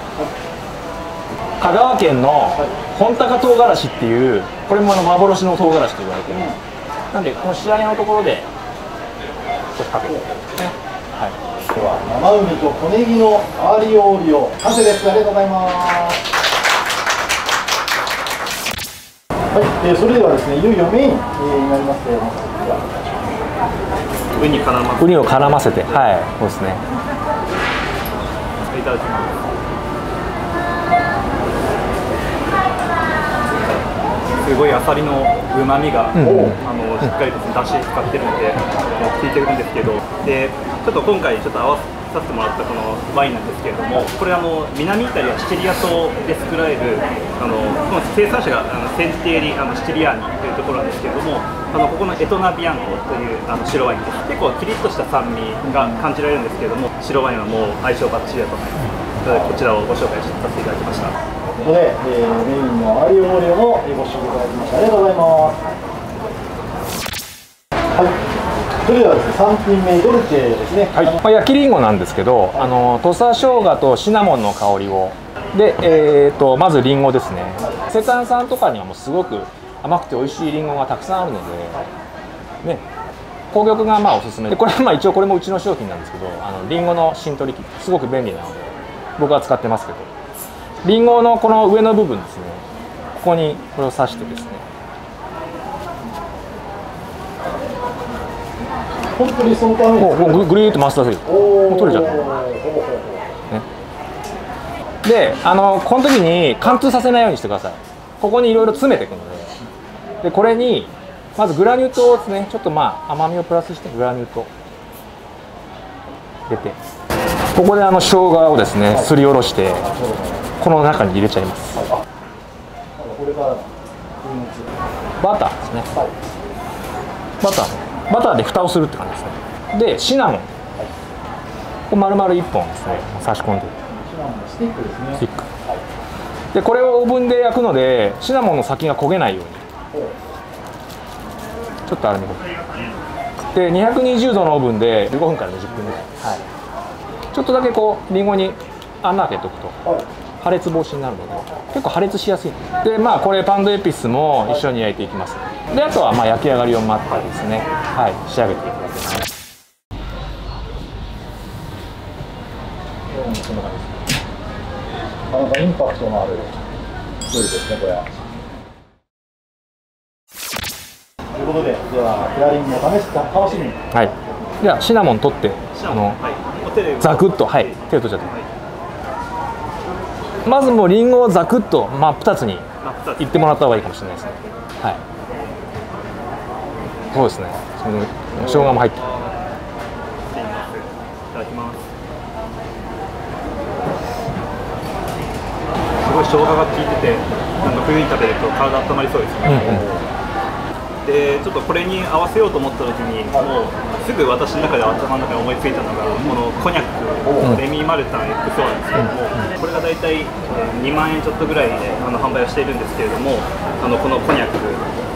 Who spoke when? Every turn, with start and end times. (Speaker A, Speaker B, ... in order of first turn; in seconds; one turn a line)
Speaker A: 1.6-6.6
Speaker B: 6.3-6.6
Speaker A: 7.1-8.5
Speaker A: 9.8-11.4
Speaker B: 11.7-16.2
Speaker B: 19.5-23.3
Speaker C: 24.3-26.1
Speaker A: 25.0-26.8
Speaker C: 28.7-29.4
Speaker C: 34.4-61.1
Speaker A: 36.1-36.6
Speaker B: 36.2-36.6
Speaker B: 55.6-56.0
Speaker B: 61.6-65.6
Speaker B: 67.9-68.2
Speaker B: 68.8-71.2
Speaker A: 70.9-81.8
Speaker A: 83.5-90.1
Speaker A: 90.8-92.6
Speaker A: 93.2-94.6
Speaker B: 99.1-103.2
Speaker A: 100.0-102.3
Speaker A: 105.0-109.6
Speaker A: 110.2-114.5
Speaker A: 116.5-116.8
Speaker A: 117.5-119.9
Speaker B: 119.8-120.5
Speaker A: 120.6-121.9
Speaker B: 121.7-122.0
Speaker B: 123.0-124.7
Speaker A: 125.2-125.9
Speaker A: 127.4-130.5
Speaker A: 131.9-133.8
Speaker B: 133.9-135.8
Speaker A: 135.2-135.5
Speaker A: 136.5-139.6
Speaker A: 141.8-142.4
Speaker A: 143.5-146.4
Speaker A: 147.3-149.8
Speaker A: 150.4-159.2
Speaker B: 163.1-164.0
Speaker B: 165.3-166.6
Speaker B: 167.3-168.1
Speaker B: 171.3-174.1
Speaker A: 173.9-176.2
Speaker C: 175.7-178.5
Speaker A: 177.0-178.3
Speaker A: 180.4-182.7
Speaker C: 182.8-183.9
Speaker A: 183.2-185.0
Speaker A: 187.1-189.0
Speaker C: 188.4-189.3
Speaker C: 190.3-191.9
Speaker C: 196.0-199.8
Speaker A: 199.4-199.9
Speaker B: 199.5-200.1
Speaker C: 201.0-214.8
Speaker B: 207.2-207.5